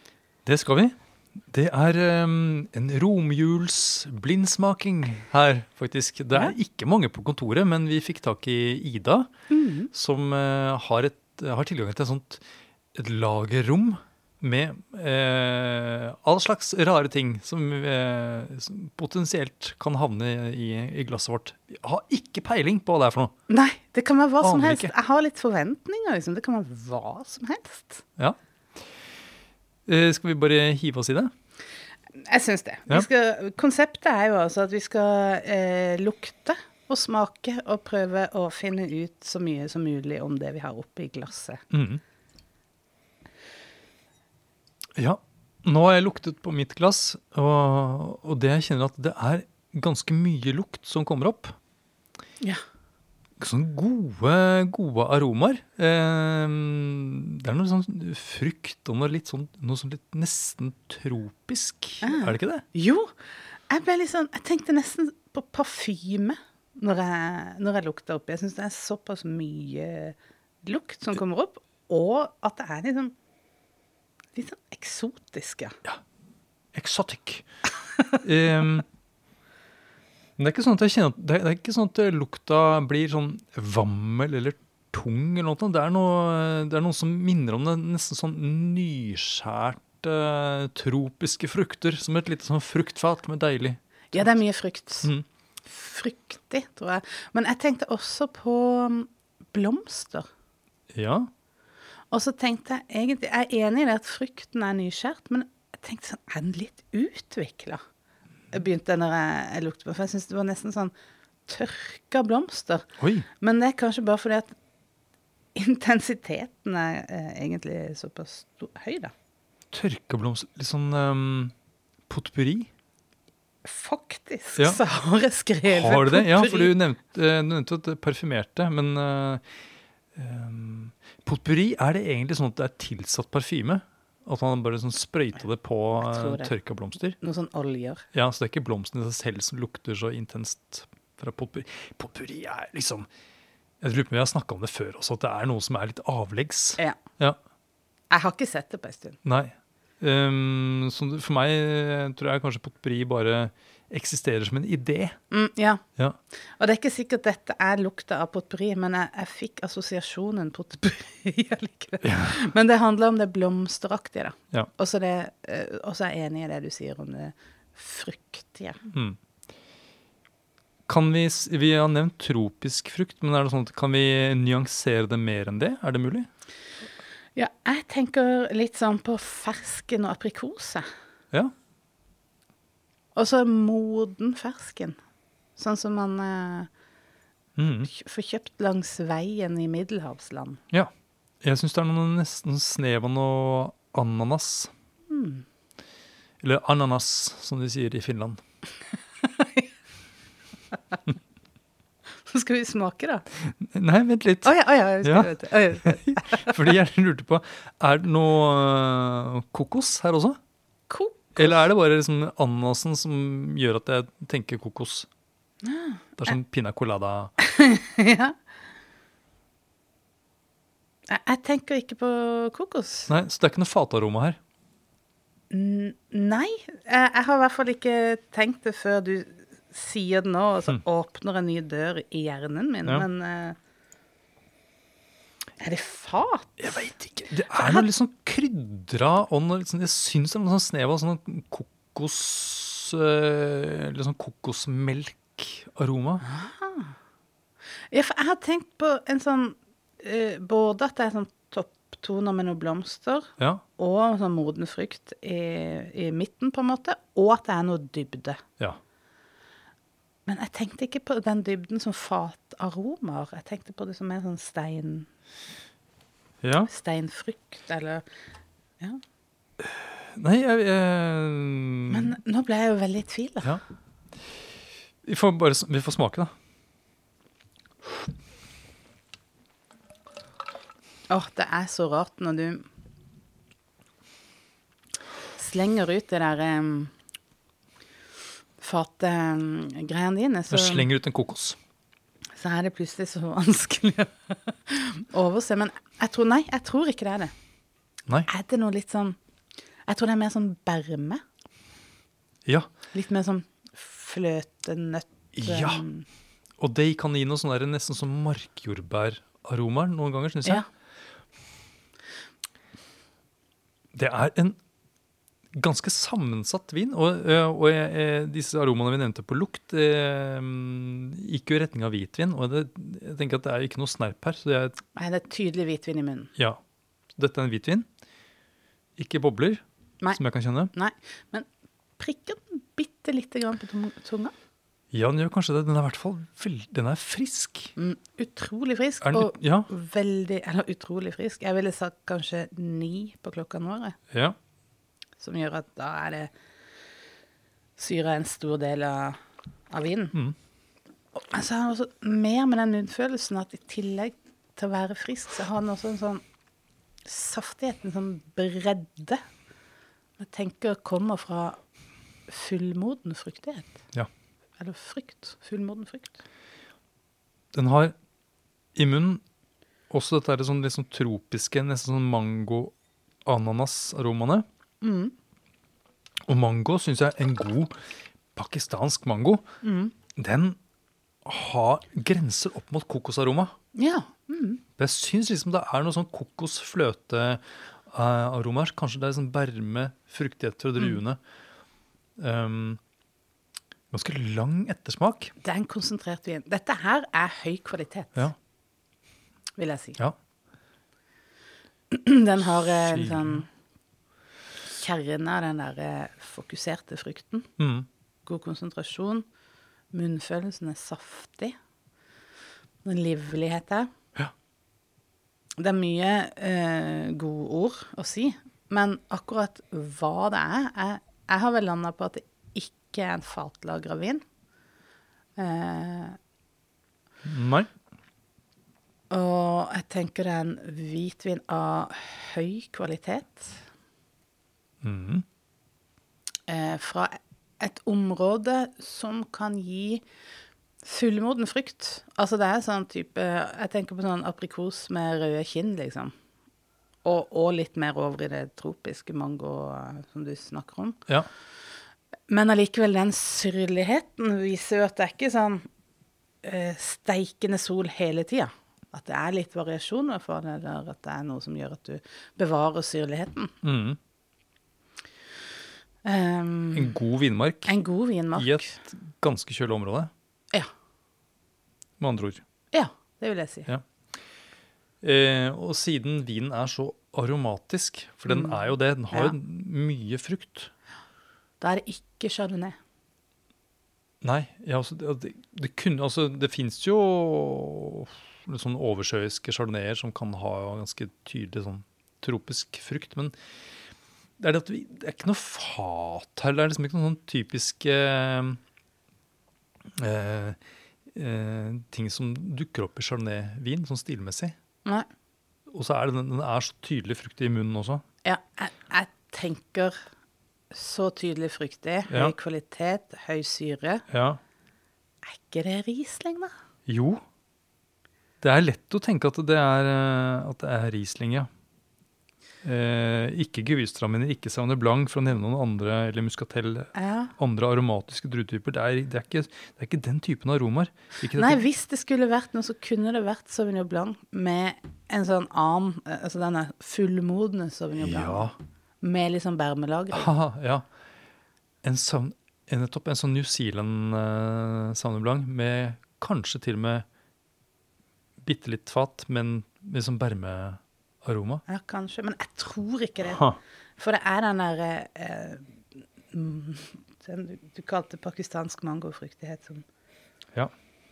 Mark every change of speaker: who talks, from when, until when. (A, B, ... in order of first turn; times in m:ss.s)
0:00.5-0:01.0 A
0:01.5-0:09.3 A
0:09.5-0:09.9 B
0:09.9-0:12.4 A
0:13.0-0:23.3 A
0:23.5-0:28.0 B
0:24.4-0:24.9 A
0:29.9-0:31.3 A
0:32.1-0:41.6 B
0:41.7-0:42.0 A
0:45.0-0:51.5 A
0:53.4-1:02.6 A
1:02.0-1:03.1 B
1:03.7-1:13.1 B
1:14.3-1:15.8 B
1:16.7-1:17.4 A
1:18.2-1:18.9 A
1:20.4-1:34.4 A
1:34.1-1:35.1 B
1:35.7-1:40.3 B
1:40.9-1:41.3 A
1:42.1-1:47.8 B
1:48.5-1:50.9 B
1:51.5-1:54.5 B
1:53.0-1:53.3 A
1:55.5-1:59.1 B
1:59.7-2:01.5 A
2:02.1-2:02.7 A
2:03.6-2:06.8 B
2:05.6-2:09.4 A
2:10.2-2:17.2 A
2:16.0-2:16.5 B
2:17.2-2:18.0 B
2:18.1-2:23.1 A
2:23.8-2:27.4 A
2:28.1-2:29.2 B
2:29.2-2:35.2 A
2:35.3-2:35.8 B
2:36.6-2:48.8 B
2:42.0-2:42.4 A
2:48.9-2:49.2 A
2:50.9-2:56.3 A
2:57.4-3:00.9 B
3:03.2-3:05.0 B
3:05.6-3:06.7 B
3:07.6-3:07.9 A
3:07.8-3:10.6 B
3:11.4-3:14.7 A
3:15.1-3:15.4 B
3:16.4-3:18.4 A
3:19.3-3:19.7 B
3:22.2-3:23.2 B
3:23.6-3:24.5 A
3:24.4-3:26.5 B
3:25.0-3:30.4 A
3:30.9-3:31.6 B
3:31.4-3:35.1 A
3:35.6-3:36.3 B
3:36.2-3:37.3 A
3:37.4-3:38.3 B
3:41.1-3:43.1 B
3:43.1-3:44.4 A
3:45.5-3:53.6 B
3:55.6-3:56.8 B
3:56.6-4:06.2 A
3:57.5-3:57.9 B
4:06.2-4:07.0 B
4:07.9-4:18.4 B
4:20.2-4:25.1 B
4:26.4-4:26.7 A
4:26.7-4:28.0 B
4:29.6-4:32.1 A
4:31.9-4:33.6 B
4:35.0-4:36.3 A
4:41.1-4:42.7 B
4:45.4-4:46.9 B
4:48.6-4:50.9 B
4:50.5-4:51.6 A
4:52.4-4:57.3 B
4:58.3-4:59.2 B
4:59.9-5:01.2 B
5:02.9-5:06.1 B
5:05.3-5:05.8 A
5:06.6-5:10.6 A
5:13.9-5:14.6 A
5:15.5-5:24.8 A
5:24.9-5:26.3 B
5:27.2-5:27.9 A
5:29.0-5:30.7 A
5:30.7-5:31.4 B
5:32.0-5:34.3 B
5:34.9-5:37.8 A
5:37.8-5:44.0 B
5:39.0-5:39.7 A
5:44.1-5:44.4 A
5:45.2-5:46.3 B
5:47.8-5:49.2 B
5:49.7-5:50.2 B
5:51.1-5:56.2 B
5:57.0-5:59.2 B
6:00.2-6:01.6 B
6:02.3-6:03.8 B
6:04.6-6:06.2 B
6:07.5-6:07.9 A
6:08.8-6:09.2 A
6:09.9-6:12.7 A
6:13.2-6:14.4 A
6:14.8-6:15.1 B
6:16.3-6:17.7 A
6:18.3-6:19.4 A
6:19.6-6:19.9 B
6:20.2-6:20.6 A
6:21.2-6:23.5 A
6:23.8-6:24.6 B
6:24.8-6:31.2 A
6:32.2-6:32.8 A
6:33.9-6:35.3 A
6:35.4-6:38.3 B
6:39.6-6:40.0 B
6:41.9-6:43.5 B
6:42.7-6:43.4 A
6:44.7-6:47.5 B
6:47.6-6:47.9 A
6:48.2-6:49.2 B
6:49.9-6:51.6 B
6:52.8-6:53.9 B
6:55.6-7:04.2 B
7:05.4-7:06.2 B
7:07.2-7:07.7 A
7:09.1-7:13.6 B
7:14.8-7:15.2 A
7:16.5-7:20.0 B
7:20.8-7:26.1 B
7:27.0-7:31.0 B
7:32.3-7:35.6 B
7:36.4-7:43.5 B
7:43.6-7:44.0 A
7:46.0-7:47.0 B
7:46.7-7:47.8 A
7:47.6-7:48.8 B
7:48.3-7:50.1 A
7:52.0-7:52.4 A
7:52.7-7:53.7 B
7:55.0-8:00.7 A
7:58.2-7:59.3 B
8:01.6-8:02.8 B
8:04.2-8:13.3 A
8:14.4-8:18.6 A
8:20.0-8:20.6 A
8:21.1-8:24.6 A
8:25.7-8:28.0 A
8:28.2-8:30.0 B
8:30.7-8:34.1 B
8:34.1-8:34.4 A
8:35.2-8:36.5 B
8:36.9-8:37.2 A
8:38.4-8:41.5 A
8:42.6-8:51.6 A
8:47.0-8:47.3 B
8:51.3-9:00.3 B
8:58.0-8:58.6 A
9:00.1-9:00.9 A
9:01.8-9:07.0 A
9:08.4-9:11.6 A
9:11.7-9:13.4 B
9:13.2-9:13.6 A
9:14.0-9:19.8 B